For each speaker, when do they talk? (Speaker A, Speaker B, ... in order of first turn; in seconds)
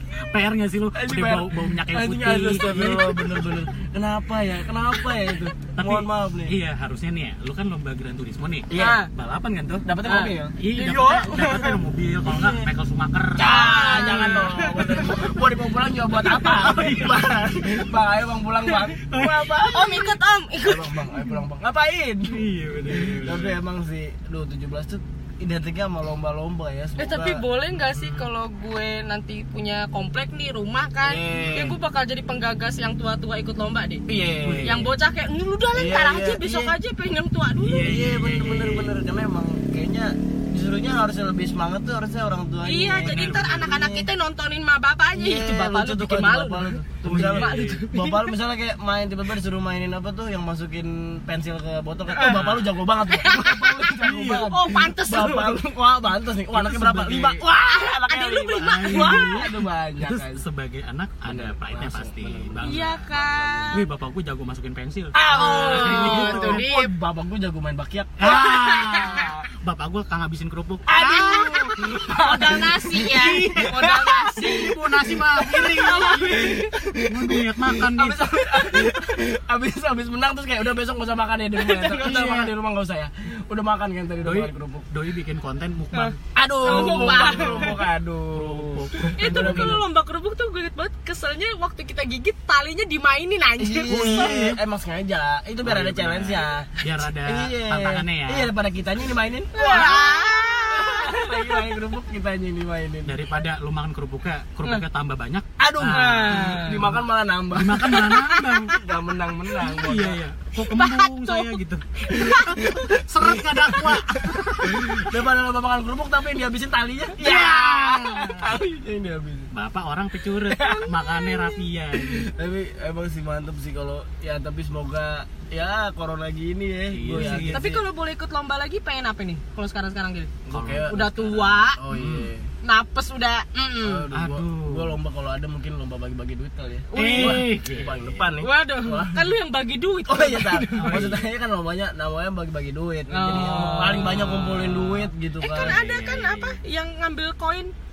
Speaker A: 0.3-3.7, 5.7-14.5, 16.4-17.4, 18.8-19.7, 22.3-23.6, 34.4-34.8, 37.6-39.0, 42.9-43.7, 47.0-47.9, 52.2-52.7, 54.0-54.5, 56.5-57.4, 58.6-63.1, 63.7-66.6, 68.2-70.9, 74.4-78.3, 82.0-82.5, 84.2-87.8, 88.3-89.8, 93.9-94.6, 95.6-98.5, 103.0-108.8, 109.6-115.1, 119.5-122.3, 126.9-127.6, 130.5-131.1, 131.9-132.3, 134.1-135.0, 136.9-138.3, 140.7-141.2, 143.3-146.6
Speaker B: 0.9-6.5, 8.7-9.0, 9.8-10.6, 11.2-12.7, 13.4-28.3, 31.0-31.8, 34.1-34.9, 35.7-36.8, 37.8-44.1, 45.1-60.4, 61.2-63.9, 65.1-68.5, 70.9-74.8, 75.4-77.1, 77.8-84.9, 86.3-89.8, 93.6-103.2, 105.6-108.1, 108.8-110.2, 112.6-112.9, 114.6-119.5, 122.0-127.8, 130.5-132.5, 133.8-139.3, 140.1-145.8
Speaker C: 8.7-9.1, 10.0-11.6, 13.4-15.1, 16.2-17.1, 19.7-21.2, 27.0-34.0, 34.6-38.0, 42.6-48.3, 52.1-52.4, 53.1-53.8, 54.3-55.6, 57.6-59.4, 62.6-63.8, 65.3-66.9, 68.2-69.3, 70.9-74.8, 75.7-76.7, 81.6-82.2, 85.9-87.8, 89.2-94.4, 99.5-101.6, 105.9-106.9, 107.9-108.8, 110.6-112.7, 117.2-118.5, 120.5-121.6, 127.3-130.3, 130.8-131.8, 132.6-134.1, 136.9-137.6, 138.4-141.1, 143.1-144.1, 145.4-147.7